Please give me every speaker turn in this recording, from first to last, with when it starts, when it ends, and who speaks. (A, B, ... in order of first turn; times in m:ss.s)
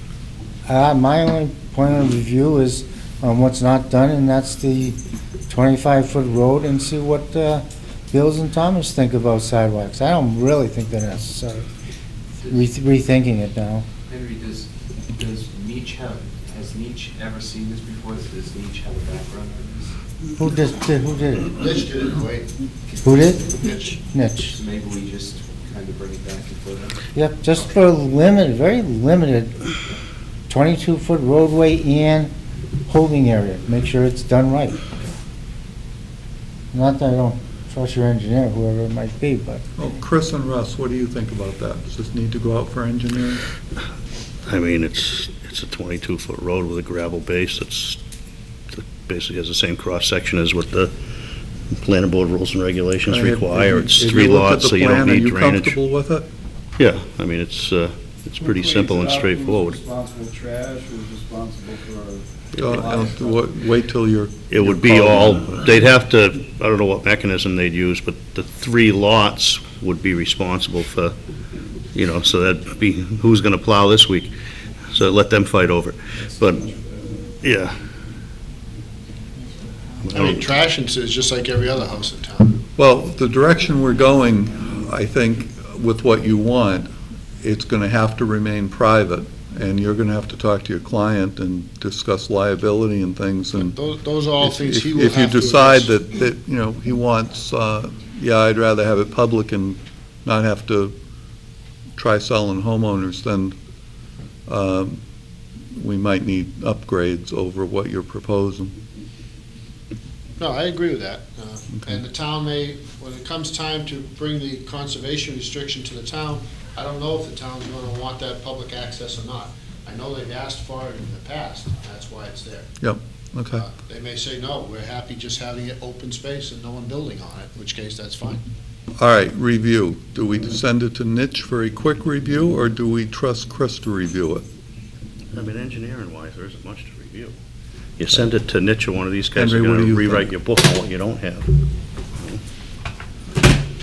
0:00.7-0:05.0 A
0:05.5-0:11.7 A
0:12.4-0:12.7 B
0:12.5-0:13.8 A
0:14.1-0:19.9 B
0:20.4-0:21.5 A
0:21.6-0:22.5 C
0:22.9-0:23.6 B
0:23.0-0:23.4 A
0:23.6-0:24.0 C
0:24.0-0:24.6 A
0:24.5-0:27.0 B
0:27.1-0:29.6 A
0:30.5-0:32.3 A
0:32.9-0:34.8 A
0:36.7-0:39.6 A
0:39.8-0:43.4 D
0:44.5-0:48.0 E
0:48.7-0:50.9 E
0:51.7-0:55.8 E
0:53.1-0:56.3 D
0:56.8-0:59.8 E
0:58.4-1:03.4 F
1:02.6-1:05.7 D
1:04.5-1:11.1 E
1:11.9-1:14.3 E
1:14.9-1:16.8 E
1:17.4-1:17.7 E
1:20.0-1:20.4 E
1:20.1-1:22.6 C
1:22.8-1:26.9 D
1:27.4-1:33.8 D
1:33.6-1:35.9 C
1:34.4-1:40.9 D
1:42.0-1:43.6 D
1:44.5-1:45.0 D
1:45.7-1:48.7 D
1:50.4-2:02.7 C
2:02.8-2:03.6 D
2:03.5-2:08.4 C
2:09.0-2:14.4 D
2:15.3-2:17.3 E
2:18.0-2:21.5 E
2:19.3-2:20.3 D